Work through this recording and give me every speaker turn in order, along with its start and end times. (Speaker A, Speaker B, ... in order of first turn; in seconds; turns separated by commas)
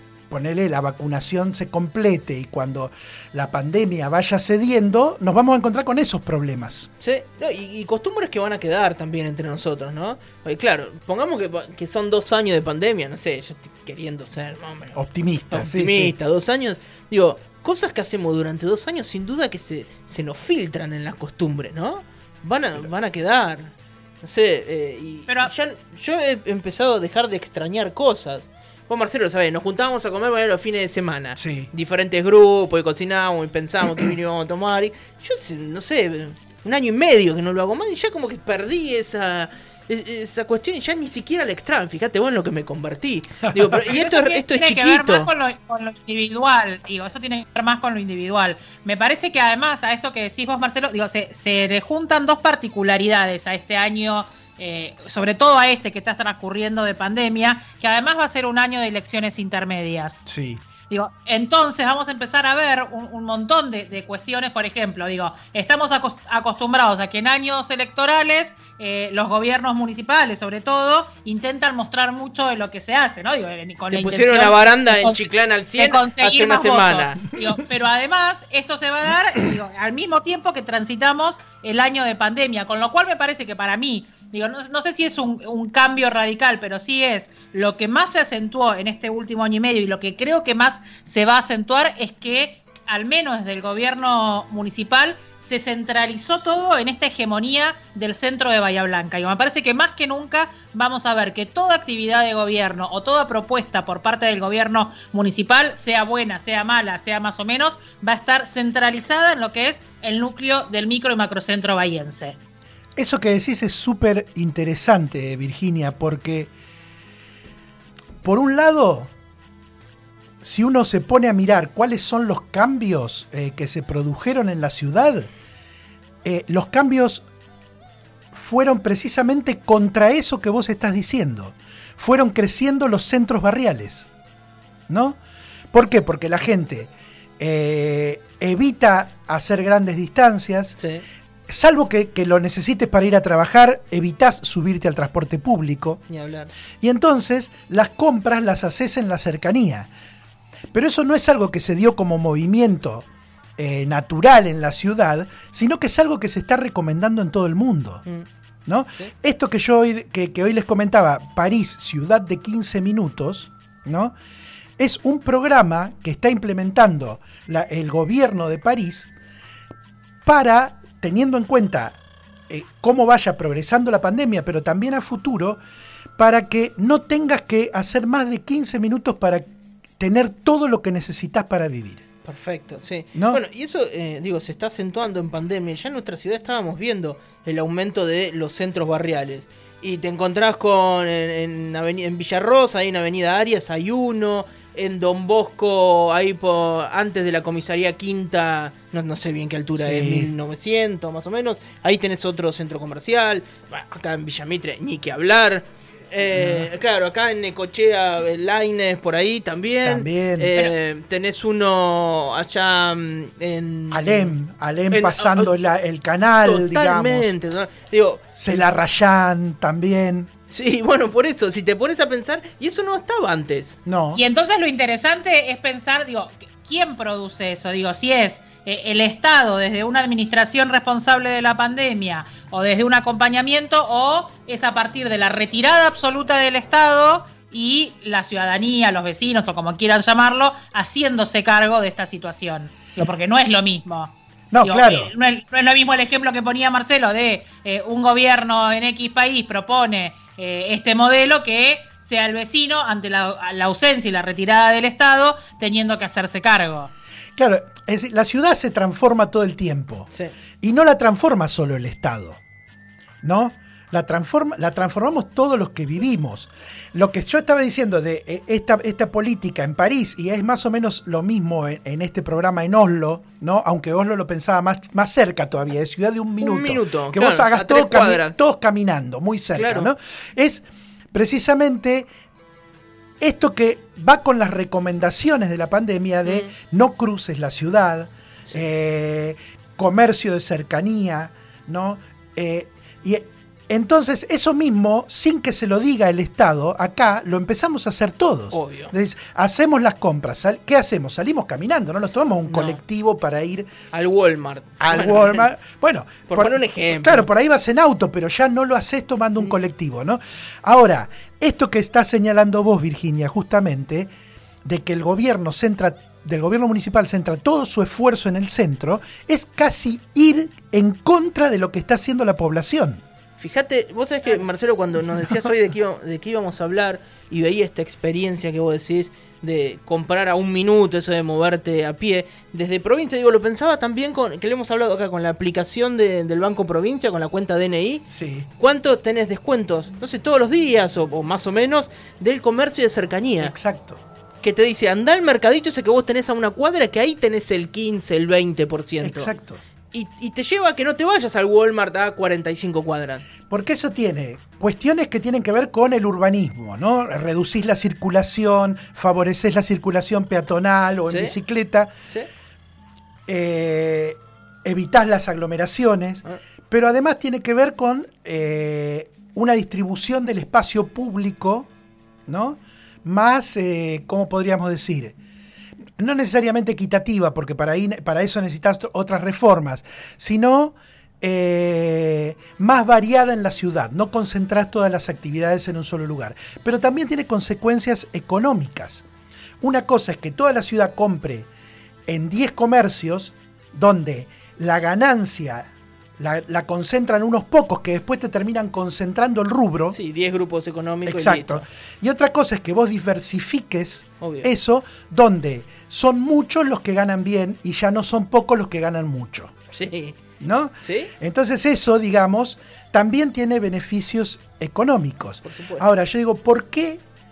Speaker A: 0.3-6.9, Speaker B: 7.0-15.0, Speaker A: 14.9-16.1, Speaker B: 15.5-45.3, Speaker A: 31.4-31.7, Speaker C: 43.9-60.3, Speaker A: 60.2-60.6, Speaker C: 60.9-75.2, Speaker B: 73.9-77.2, Speaker C: 75.8-112.4, Speaker A: 113.0-116.5, Speaker A: 118.2-119.1, Speaker A: 120.4-125.3, Speaker A: 126.2-127.2, Speaker A: 128.3-134.1, Speaker A: 134.9-135.2, Speaker A: 135.7-140.7, Speaker B: 140.8-141.0, Speaker A: 141.5-146.0, Speaker B: 146.1-146.5, Speaker A: 146.8-149.9, Speaker A: 150.7-153.0, Speaker A: 153.6-158.0, Speaker A: 158.7-164.1, Speaker A: 164.8-169.1, Speaker A: 170.2-172.0, Speaker A: 172.5-175.6, Speaker A: 176.2-179.5, Speaker A: 180.0-182.0, Speaker B: 182.2-214.3, Speaker A: 183.1-183.4, Speaker A: 199.8-200.3, Speaker A: 206.3-206.7, Speaker A: 209.8-210.7, Speaker A: 213.9-217.3, Speaker B: 214.9-215.5, Speaker B: 216.4-218.3, Speaker A: 218.3-220.3, Speaker B: 220.5-223.8, Speaker A: 223.8-224.2, Speaker C: 224.1-256.9, Speaker A: 244.5-245.1, Speaker A: 257.4-260.1, Speaker A: 260.6-262.4, Speaker A: 263.2-282.1, Speaker B: 276.4-278.3, Speaker B: 279.5-279.9, Speaker A: 283.2-303.7, Speaker B: 286.2-286.5, Speaker B: 298.5-298.9, Speaker B: 302.5-302.8, Speaker B: 303.9-305.5, Speaker A: 304.8-314.1, Speaker B: 306.3-307.3, Speaker A: 314.6-323.0, Speaker B: 323.4-338.0, Speaker A: 338.1-338.5, Speaker B: 338.6-343.5, Speaker A: 343.4-344.0, Speaker B: 344.4-349.3, Speaker A: 349.0-349.6, Speaker B: 349.9-353.2, Speaker A: 353.5-361.9, Speaker B: 361.1-361.3, Speaker A: 363.3-371.7, Speaker A: 372.3-375.1, Speaker A: 376.0-389.0, Speaker A: 389.6-391.5, Speaker A: 392.1-399.9, Speaker B: 399.9-401.6, Speaker A: 401.1-409.6, Speaker B: 404.2-404.5, Speaker B: 409.7-410.2, Speaker A: 410.4-417.0, Speaker B: 410.8-411.1, Speaker B: 415.4-415.9